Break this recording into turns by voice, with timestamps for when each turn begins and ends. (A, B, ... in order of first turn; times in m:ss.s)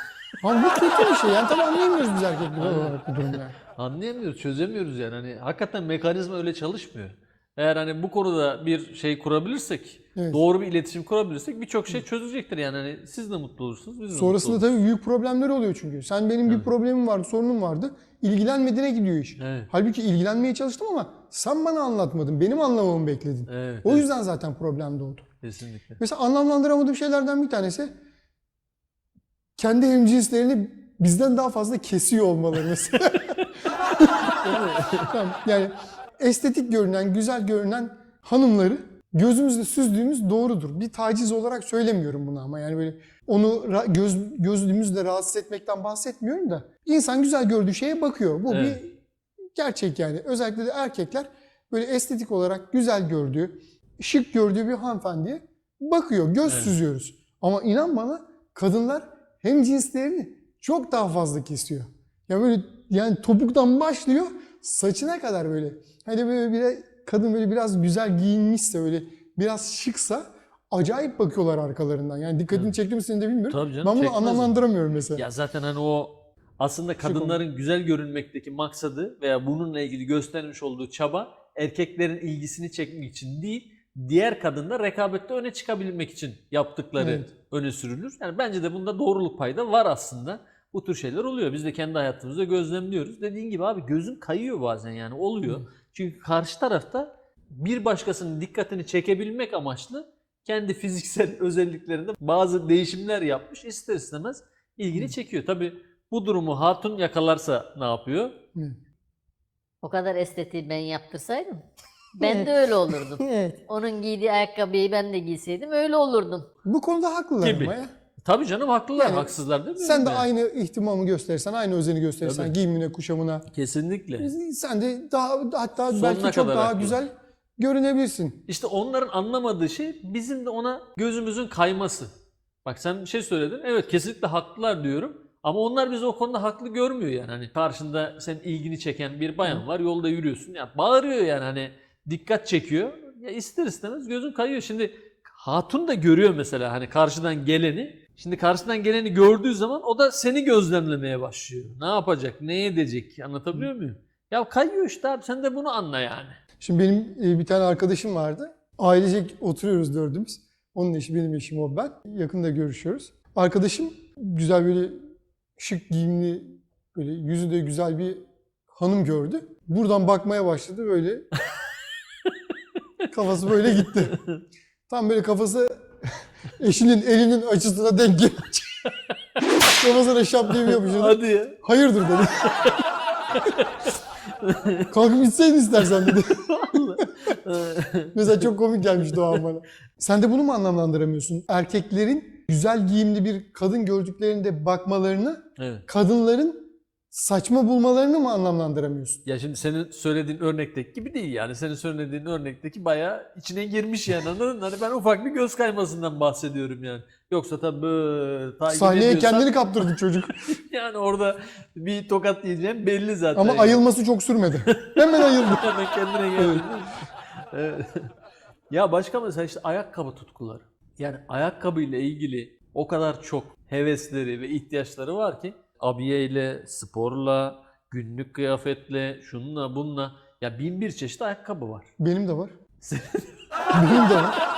0:00.4-0:03.5 A
0:02.6-0:03.0 B
0:03.6-0:14.8 B
0:10.2-0:10.4 A
0:14.1-0:25.3 A
0:19.4-0:19.7 B
0:23.5-0:24.1 B
0:25.4-0:26.0 B
0:26.0-0:27.9 A
0:29.6-0:49.0 A
0:34.3-0:35.1 B
0:48.5-0:48.8 B
0:49.5-1:15.2 A
0:56.4-0:56.8 B
1:13.5-1:14.6 B
1:15.1-1:48.4 B
1:17.0-1:17.4 A
1:27.0-1:27.3 A
1:49.8-1:51.6 C
1:52.2-1:56.5 C
1:56.6-1:57.9 A
1:57.4-2:00.3 B
1:59.0-2:03.5 A
2:02.2-2:02.6 B
2:03.5-2:04.3 B
2:04.2-2:08.4 A
2:05.9-2:07.0 B
2:08.5-2:12.1 B
2:12.6-2:36.4 B
2:36.6-2:45.0 A
2:45.6-2:51.3 A
2:53.1-2:54.2 A
2:53.6-2:54.4 B
2:54.9-2:55.9 A
2:56.6-2:58.8 A
2:59.6-3:02.6 A
3:00.5-3:01.6 B
3:03.3-3:04.9 B
3:04.9-3:07.0 A
3:06.1-3:08.4 B
3:08.1-3:19.2 A
3:15.6-3:15.8 B
3:19.2-3:29.6 B
3:28.7-3:30.4 A
3:30.3-3:33.8 B
3:33.3-3:35.7 A
3:34.7-3:38.1 B
3:36.4-3:36.6 A
3:38.7-3:51.9 B
3:52.0-3:52.6 A
3:52.8-3:54.2 B
3:53.7-3:54.4 A